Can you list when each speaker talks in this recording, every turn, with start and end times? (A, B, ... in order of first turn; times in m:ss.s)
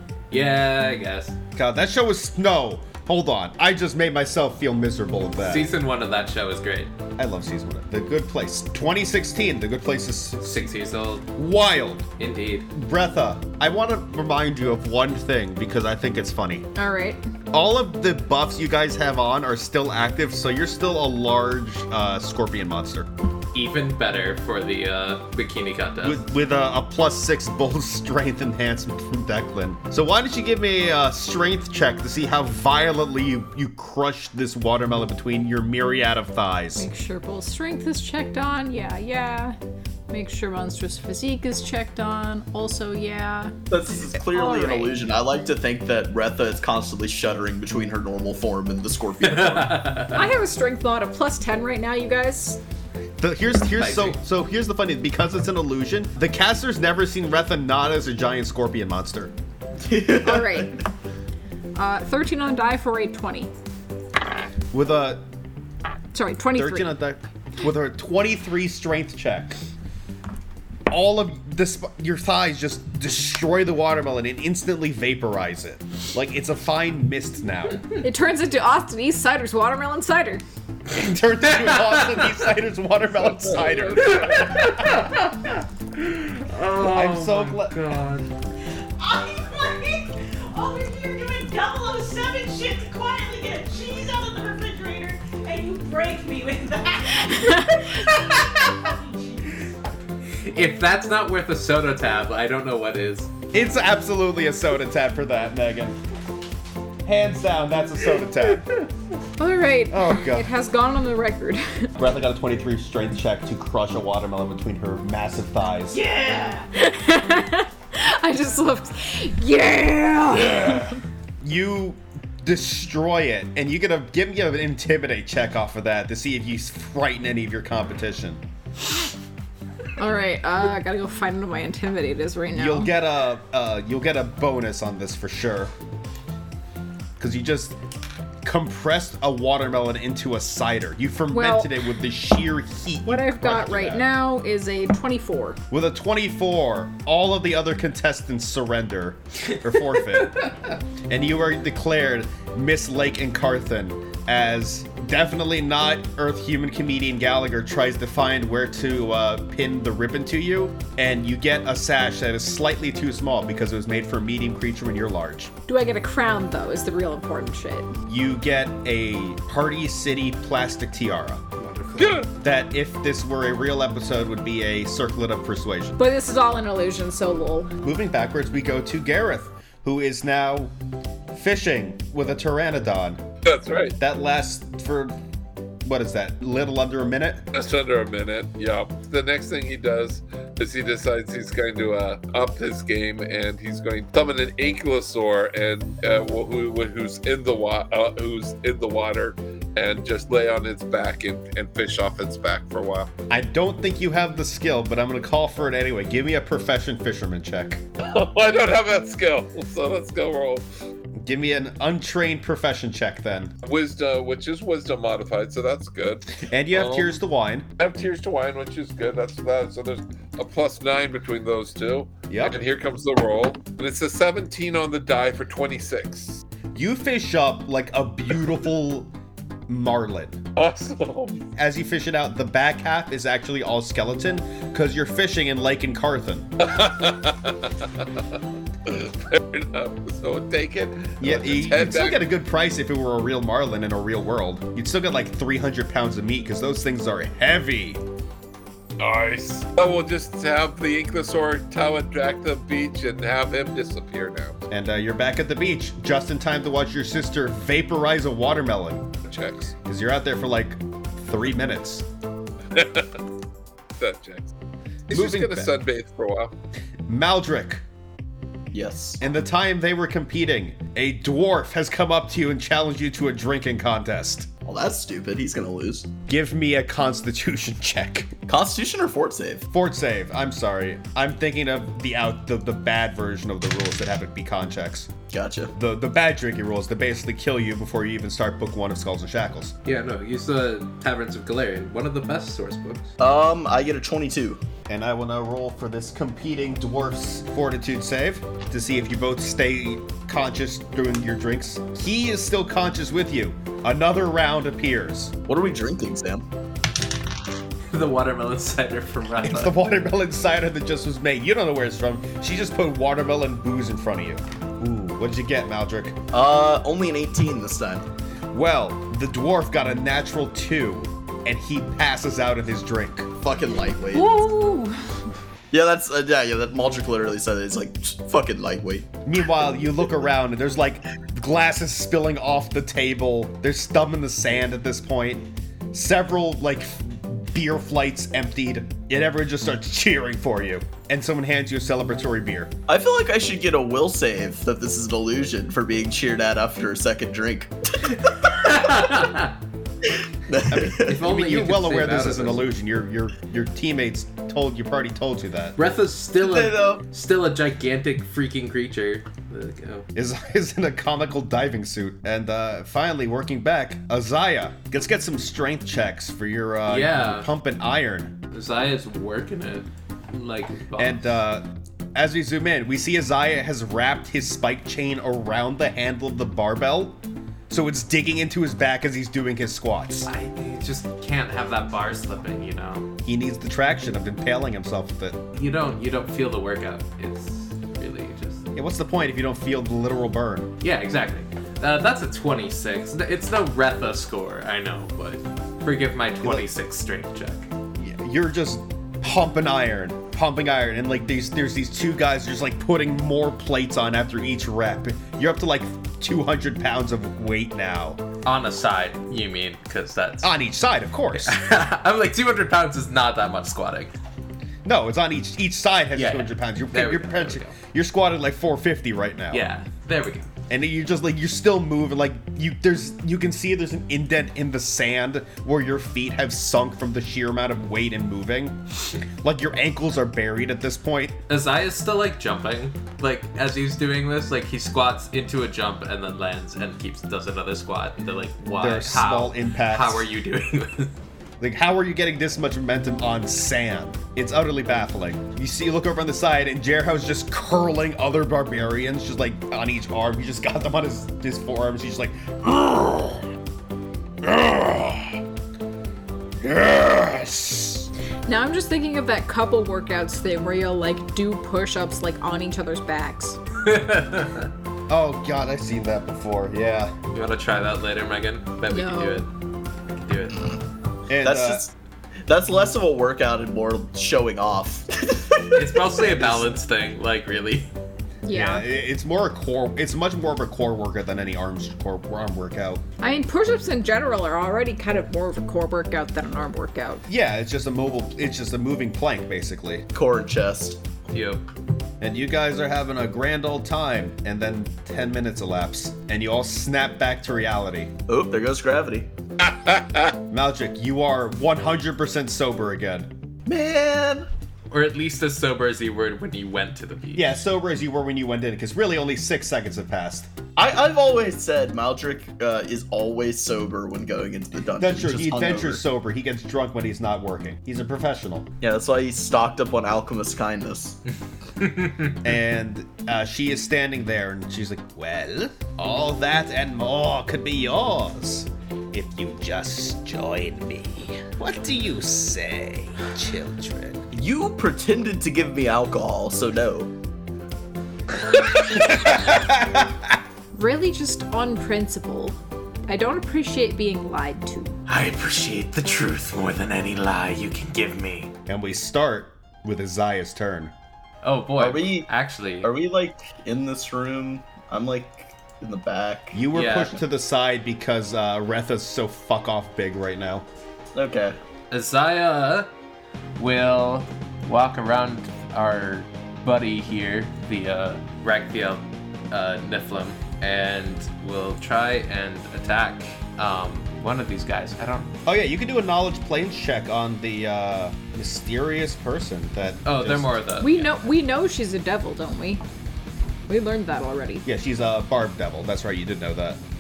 0:00.3-0:01.4 A
0:01.6-0:05.7 B
0:05.4-0:06.9 A
0:07.2-0:10.6 B
0:10.4-0:11.3 A
0:11.4-0:12.1 B
0:12.2-0:12.7 A
0:12.7-0:16.7 B
0:16.8-0:17.2 C
0:17.5-0:23.1 B
0:23.5-0:26.2 A
0:26.0-0:36.9 B
0:36.8-0:39.6 C
0:40.1-0:43.6 C
0:43.7-0:50.1 D
0:44.3-0:44.9 C
0:49.2-0:50.3 A
0:50.1-0:52.6 C
0:53.2-0:59.3 B
0:53.8-0:54.2 A
0:59.8-1:00.8 D
1:00.2-1:00.8 C
1:01.8-1:03.5 C
1:04.7-1:05.2 B
1:06.1-1:07.0 C
1:06.5-1:09.6 B
1:10.9-1:17.9 B
1:18.0-1:20.4 C
1:20.9-1:25.1 B
1:23.6-1:24.2 E
1:24.1-1:28.3 A
1:26.8-1:27.8 B
1:29.0-1:38.2 F
1:37.3-1:38.0 C
1:38.7-1:39.7 F
1:40.3-1:43.3 A
1:43.5-1:46.0 B
1:47.0-1:48.7 B
1:49.4-1:51.9 C
1:49.9-1:50.5 B
1:52.0-1:56.0 B
1:56.5-2:01.0 C
2:00.3-2:08.4 B
2:10.0-2:12.9 C
2:12.5-2:15.7 B
2:17.2-2:17.8 B
2:18.4-2:24.1 B
2:21.3-2:21.8 C
2:23.1-2:25.6 C
2:25.7-2:30.5 B
2:31.1-2:45.5 B
2:45.7-2:47.9 C
2:48.1-2:51.4 B
2:51.6-2:52.2 A
2:52.0-2:52.3 E
2:52.3-2:56.0 B
2:56.0-2:57.7 C
2:57.8-3:00.7 B
3:01.3-3:03.2 B
3:03.4-3:04.0 E
3:04.0-3:05.2 B
3:05.8-3:07.4 B
3:07.5-3:23.1 E
3:23.3-3:27.9 B
3:28.0-3:30.6 E
3:31.2-3:33.5 B
3:33.6-3:37.1 E
3:36.4-3:37.7 B
3:37.8-3:46.4 E
3:42.3-3:42.6 B
3:46.8-3:49.1 B
3:49.7-3:50.4 B
3:50.6-3:51.4 E
3:51.6-3:56.5 B
3:56.6-3:58.0 E
3:58.9-4:02.2 E
4:01.2-4:08.0 B
4:09.0-4:14.6 E
4:14.7-4:19.2 B
4:19.2-4:19.7 E
4:19.8-4:22.1 B
4:22.7-4:23.2 E
4:24.0-4:24.5 E
4:25.1-4:26.5 E
4:25.1-4:25.7 B
4:27.1-4:27.8 B
4:28.7-4:29.2 D
4:29.2-4:34.5 B
4:34.7-4:36.1 D
4:36.3-4:38.3 B
4:38.5-4:39.7 D
4:39.7-4:45.1 B
4:45.3-4:45.7 D
4:45.7-4:49.8 B
4:49.9-4:53.1 A
4:53.2-4:54.6 D
4:54.9-5:05.4 B
5:05.5-5:06.4 D
5:07.9-5:09.8 A
5:09.4-5:16.2 B
5:16.3-5:18.1 D
5:18.5-5:23.3 B
5:23.4-5:24.4 D
5:24.1-5:25.2 C
5:25.7-5:29.1 D
5:29.2-5:42.7 B
5:42.9-5:48.6 D
5:48.6-5:49.5 A
5:50.5-5:51.2 D
5:50.8-5:55.8 B
5:50.9-5:52.7 A
5:55.8-6:00.1 A
5:56.4-5:57.0 D
6:00.2-6:08.4 B
6:06.9-6:07.5 A
6:08.5-6:11.4 A
6:11.0-6:20.3 B
6:20.3-6:23.1 A
6:23.2-6:25.4 B
6:25.5-6:28.7 A
6:28.8-6:30.7 B
6:30.8-6:37.7 A
6:38.0-6:48.2 B
6:48.4-6:50.5 A
6:50.4-6:51.6 B
6:51.3-6:54.1 A
6:54.8-6:59.6 B
6:56.2-6:57.8 A
6:59.5-7:00.5 A
7:00.7-7:11.4 B
7:11.5-7:21.1 A
7:18.8-7:20.3 B
7:21.6-7:33.5 B
7:34.4-7:35.4 B
7:36.6-7:38.1 B
7:38.5-7:43.6 C
7:43.8-7:44.7 A
7:45.1-7:47.2 B
7:47.3-7:49.5 A
7:48.9-7:49.4 C
7:50.1-7:50.8 A
7:51.3-7:51.8 B
7:51.4-7:51.9 D
7:52.5-7:56.6 D
7:55.7-7:57.9 A
7:58.5-7:58.9 C
7:58.5-8:03.0 B
8:03.2-8:07.2 C
8:07.3-8:10.1 B
8:10.1-8:11.0 D
8:11.3-8:11.6 A
8:12.2-8:18.1 B
8:18.3-8:19.3 D
8:19.6-8:20.3 E
8:20.5-8:23.3 B
8:23.7-8:24.5 D
8:24.9-8:27.6 A
8:27.4-8:30.5 B
8:30.8-8:36.0 D
8:35.0-8:38.7 B
8:38.8-8:41.2 D
8:41.8-8:42.3 A
8:42.4-8:54.3 B
8:54.3-8:57.1 D
8:58.8-9:00.4 B
9:00.8-9:05.0 C
9:05.1-9:08.5 A
9:08.7-9:10.9 B
9:11.4-9:12.9 A
9:11.8-9:12.3 D
9:12.8-9:16.6 D
9:16.5-9:20.7 B
9:16.7-9:17.2 A
9:21.2-9:21.6 D
9:21.9-9:22.9 A
9:23.6-9:35.3 A
9:35.5-9:40.6 B
9:40.0-9:41.2 A
9:40.8-9:42.8 C
9:43.7-9:44.6 C
9:44.6-9:46.8 B